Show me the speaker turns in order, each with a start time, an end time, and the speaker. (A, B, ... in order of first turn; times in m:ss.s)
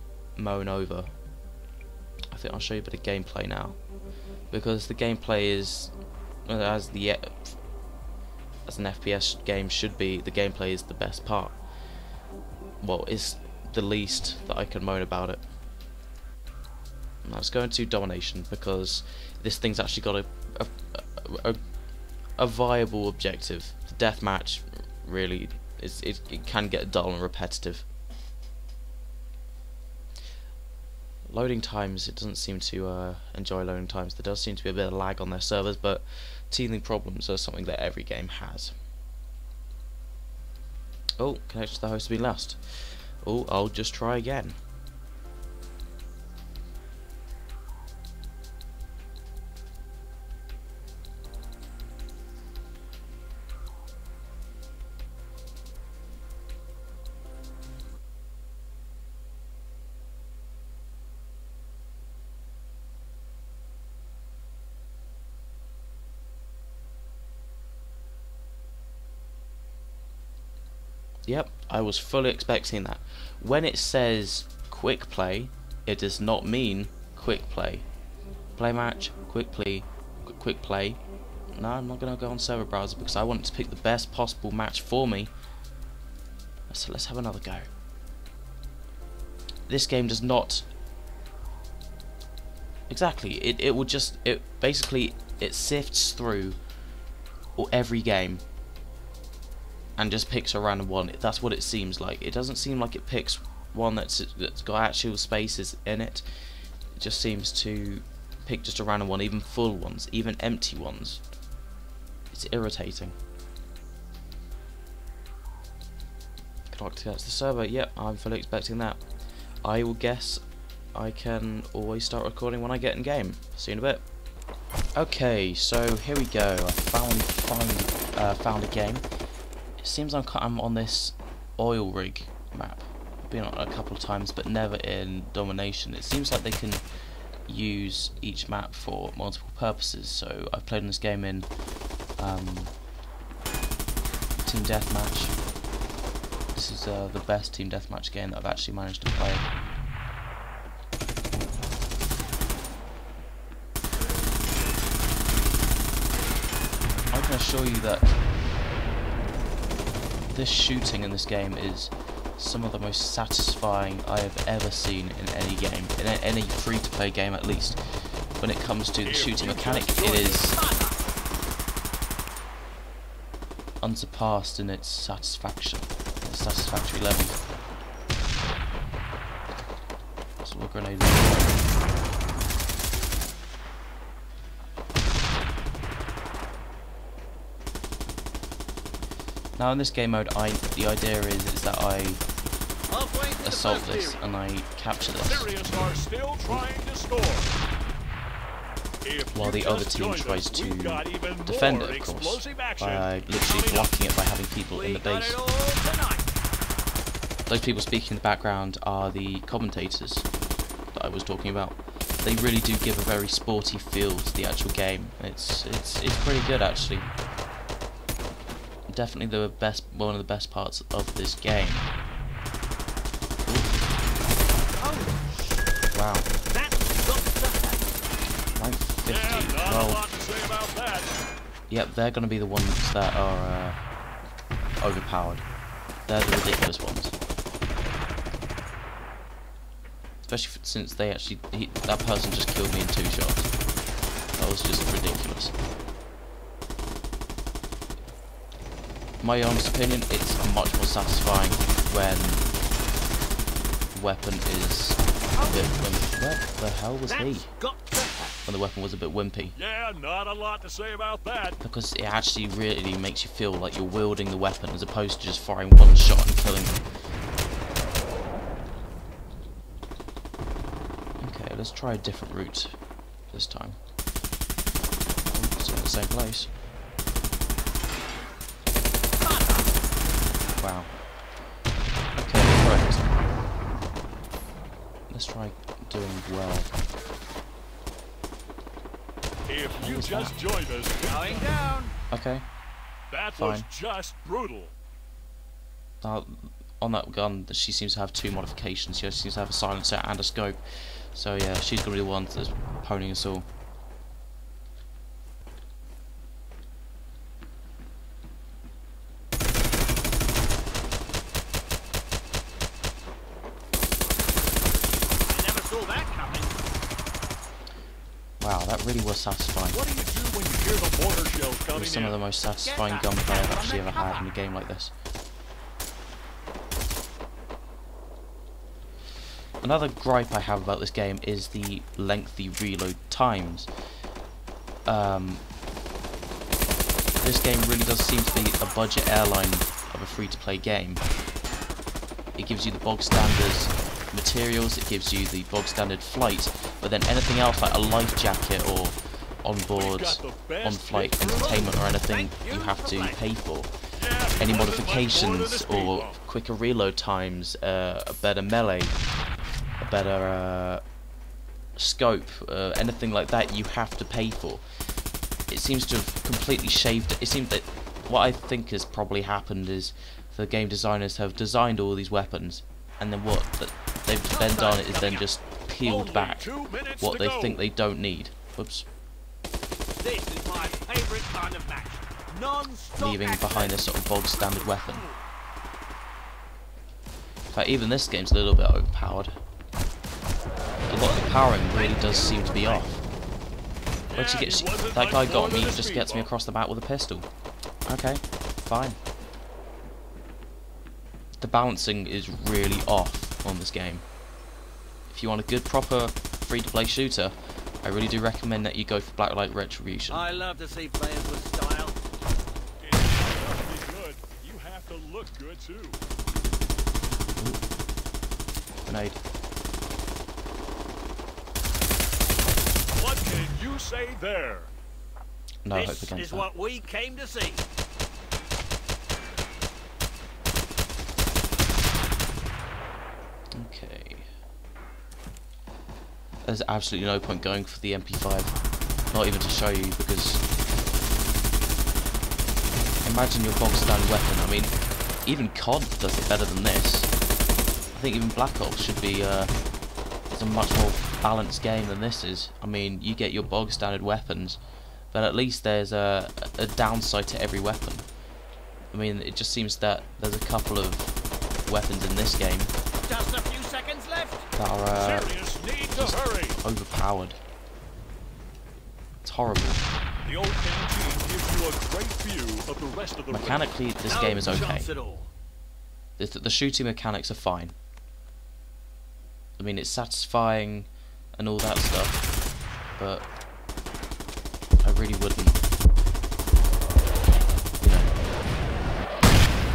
0:00.4-0:01.1 A
0:02.3-0:03.8 A
0:04.5-0:05.9 A
0:06.5-0:07.6 A
0:08.7-0:11.6 A
0:12.8-0:15.4 A
0:17.2-0:21.6 A
0:22.4-0:27.9 A
0:31.3-0:38.7 A
0:41.2-0:44.6 A
1:11.3-1:17.9 A
1:18.6-1:21.0 A
1:21.6-1:25.3 A
1:26.7-1:27.7 A
1:29.7-1:30.7 A
1:32.9-1:36.6 A
1:37.6-1:38.4 A
1:40.0-1:46.2 A
1:47.0-1:51.2 A
1:52.3-1:53.2 A
1:56.7-1:59.0 A
1:59.6-2:00.4 A
2:01.0-2:04.0 A
2:05.0-2:09.0 A
2:09.8-2:16.8 A
2:17.5-2:21.5 A
2:22.2-2:22.7 A
2:24.4-2:25.3 A
2:26.5-2:29.5 A
2:37.1-2:38.1 A
2:40.3-2:47.8 A
2:48.4-2:50.6 A
2:49.0-2:50.3 B
2:50.1-2:51.1 C
2:53.8-2:57.4 A
3:00.4-3:01.6 A
3:09.6-3:12.2 A
3:12.9-3:14.3 C
3:13.4-3:15.5 A
3:15.2-3:17.6 B
3:19.0-3:24.0 B
3:19.3-3:25.4 A
3:24.7-3:26.3 C
3:27.5-3:30.3 A
3:30.9-3:37.1 A
3:38.9-3:41.9 A
3:43.5-3:43.7 A
3:44.8-3:45.6 C
3:45.9-3:46.3 A
3:46.4-3:47.9 C
3:48.6-3:50.0 A
3:49.1-3:51.1 B
3:51.7-3:53.8 A
3:54.8-3:55.4 A
3:56.1-3:57.2 A
4:00.3-4:03.5 A
4:04.4-4:05.6 A
4:09.2-4:12.4 A
4:13.9-4:17.5 A
4:15.3-4:15.8 C
4:17.1-4:18.3 C
4:18.5-4:19.6 A
4:19.6-4:21.6 B
4:21.6-4:26.8 A
4:31.2-4:32.8 A
4:33.3-4:33.8 A
4:35.3-4:36.5 A
4:39.2-4:39.7 C
4:40.6-4:41.0 A
4:42.2-4:43.1 A
4:45.1-4:46.7 A
4:49.5-4:51.6 B
4:49.8-4:50.4 A
4:51.1-4:51.9 C
4:52.1-4:52.5 A
4:53.1-4:54.7 B
4:53.4-4:53.7 A
4:56.0-5:00.6 A
5:01.1-5:03.5 A
5:15.3-5:16.6 C
5:18.4-5:19.8 A
5:19.7-5:22.2 B
5:21.7-5:24.9 A
5:22.6-5:24.3 C
5:29.6-5:33.7 A
5:34.9-5:35.4 A
5:37.2-5:41.0 A
5:42.4-5:53.7 A
5:49.8-5:51.7 B
5:51.4-5:53.2 C
5:54.0-5:56.2 B
5:54.4-5:59.0 A
5:59.8-6:00.8 A
6:01.8-6:04.6 A
6:05.5-6:18.9 A
6:14.3-6:15.3 C
6:15.8-6:17.6 B
6:20.0-6:24.1 C
6:23.0-6:25.1 A
6:24.3-6:25.2 B
6:27.5-6:29.4 A
6:30.9-6:33.0 A
6:31.4-6:32.9 C
6:34.1-6:36.3 B
6:34.1-6:37.3 A
6:37.9-6:39.0 A
6:41.4-6:44.0 A
6:45.1-6:50.3 A
6:50.1-6:52.0 C
6:52.8-6:56.0 B
6:57.4-6:57.6 A
6:58.9-6:59.2 A
7:03.0-7:04.7 B
7:05.6-7:06.5 A
7:05.7-7:07.6 C
7:13.6-7:14.3 A
7:16.4-7:18.6 A
7:19.1-7:20.4 A
7:23.0-7:27.1 A
7:27.9-7:29.5 A
7:30.3-7:34.6 A
7:35.1-7:38.1 A
7:38.9-7:42.7 A
7:43.1-7:44.5 C
7:44.6-7:45.3 A
7:45.0-7:46.6 B
7:45.9-7:47.4 A
7:49.2-7:49.8 A
7:50.2-7:53.8 B
7:53.3-7:54.9 A
7:54.0-7:55.3 C
7:56.2-7:57.8 A
7:59.6-8:02.2 A
8:03.0-8:03.3 A
8:04.8-8:05.6 A
8:07.8-8:08.1 A